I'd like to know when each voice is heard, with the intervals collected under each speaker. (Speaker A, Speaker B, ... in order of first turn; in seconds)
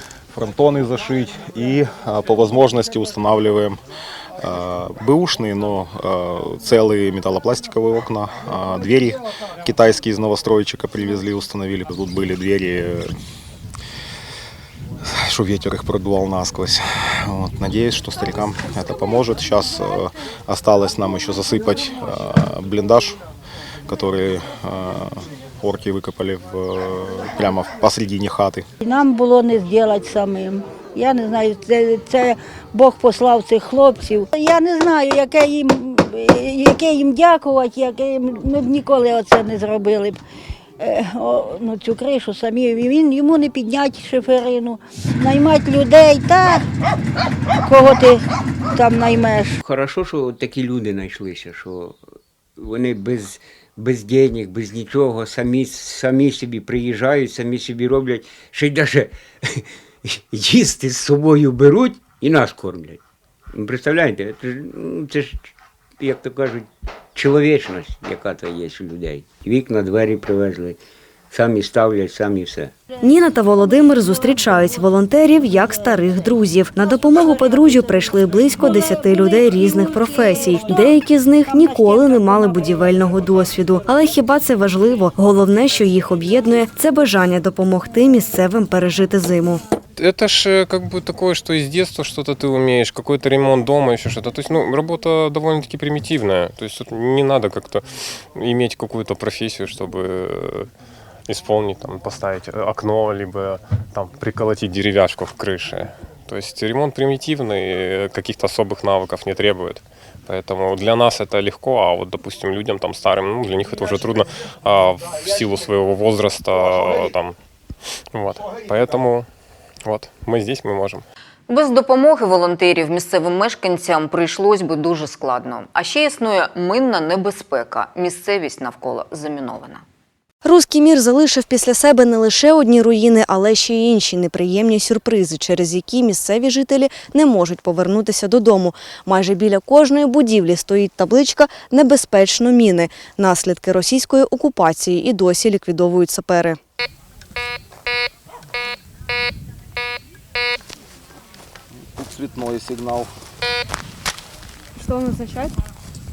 Speaker A: 0.3-3.8, 4.4-13.1, 15.1-23.2, 23.9-28.6, 151.9-153.1
Speaker B: 28.8-40.2, 40.8-46.6, 47.6-48.2, 48.7-49.6
Speaker C: 49.6-52.0, 52.6-63.0, 63.5-70.8, 71.3-72.7
Speaker D: 73.0-89.6, 130.4-146.6
Speaker E: 90.0-100.7, 101.2-117.3, 118.1-119.3, 119.8-121.0
Speaker F: 121.5-129.8